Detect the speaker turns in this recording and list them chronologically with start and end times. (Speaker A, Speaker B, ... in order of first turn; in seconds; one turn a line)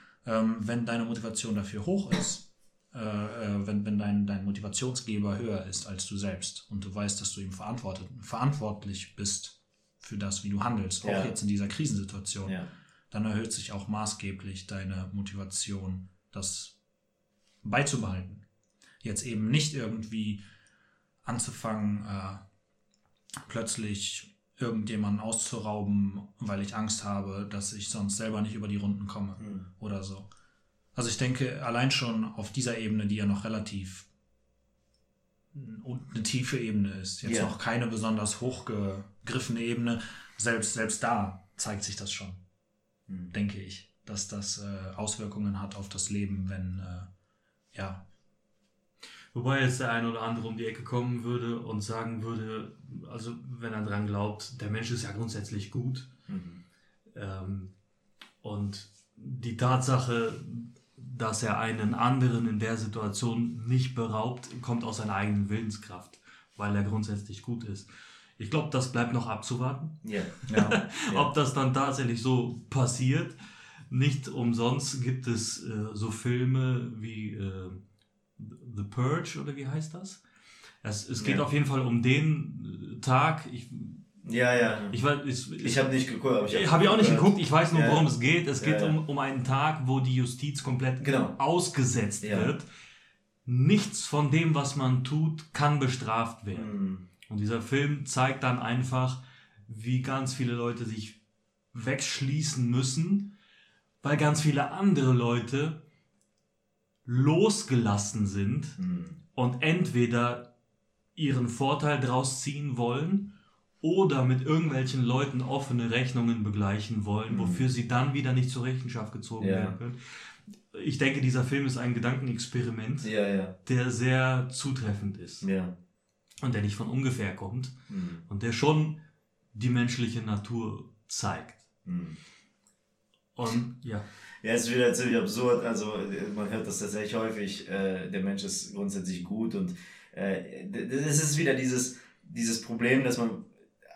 Speaker A: 0.2-12.6
Speaker B: 11.0-11.3
Speaker A: 13.1-16.8
Speaker A: 17.6-18.4
Speaker A: 19.0-20.4
Speaker A: 21.2-22.4
Speaker A: 23.4-30.3
Speaker B: 29.4-29.6
Speaker A: 30.9-34.1
Speaker A: 35.5-42.4
Speaker B: 37.2-37.5
Speaker B: 43.1-43.3
Speaker A: 43.3-47.1
Speaker A: 47.7-48.0
Speaker C: 49.3-56.1
Speaker B: 56.3-56.6
Speaker C: 57.1-57.7
Speaker C: 58.4-67.9
Speaker C: 68.4-73.4
Speaker B: 70.0-70.4
Speaker A: 70.5-70.8
Speaker C: 73.9-77.8
Speaker C: 78.4-80.2
Speaker C: 80.8-84.0
Speaker B: 81.2-81.4
Speaker B: 84.2-85.0
Speaker C: 84.9-85.8
Speaker B: 85.6-88.0
Speaker C: 86.4-92.7
Speaker B: 88.6-89.0
Speaker B: 91.0-91.3
Speaker B: 92.2-92.5
Speaker C: 93.5-96.7
Speaker B: 96.5-97.0
Speaker C: 97.2-101.2
Speaker C: 101.7-103.3
Speaker C: 104.0-105.8
Speaker C: 107.0-108.8
Speaker B: 108.8-109.2
Speaker C: 109.3-110.5
Speaker C: 111.2-113.3
Speaker C: 113.8-120.0
Speaker B: 117.3-117.7
Speaker B: 119.4-119.8
Speaker C: 120.7-123.1
Speaker B: 123.0-123.5
Speaker C: 123.6-125.5
Speaker B: 125.4-125.7
Speaker C: 126.4-127.7
Speaker B: 127.9-128.2
Speaker C: 128.3-129.0
Speaker C: 129.5-131.6
Speaker B: 131.8-132.2
Speaker C: 133.3-134.1
Speaker B: 134.4-143.5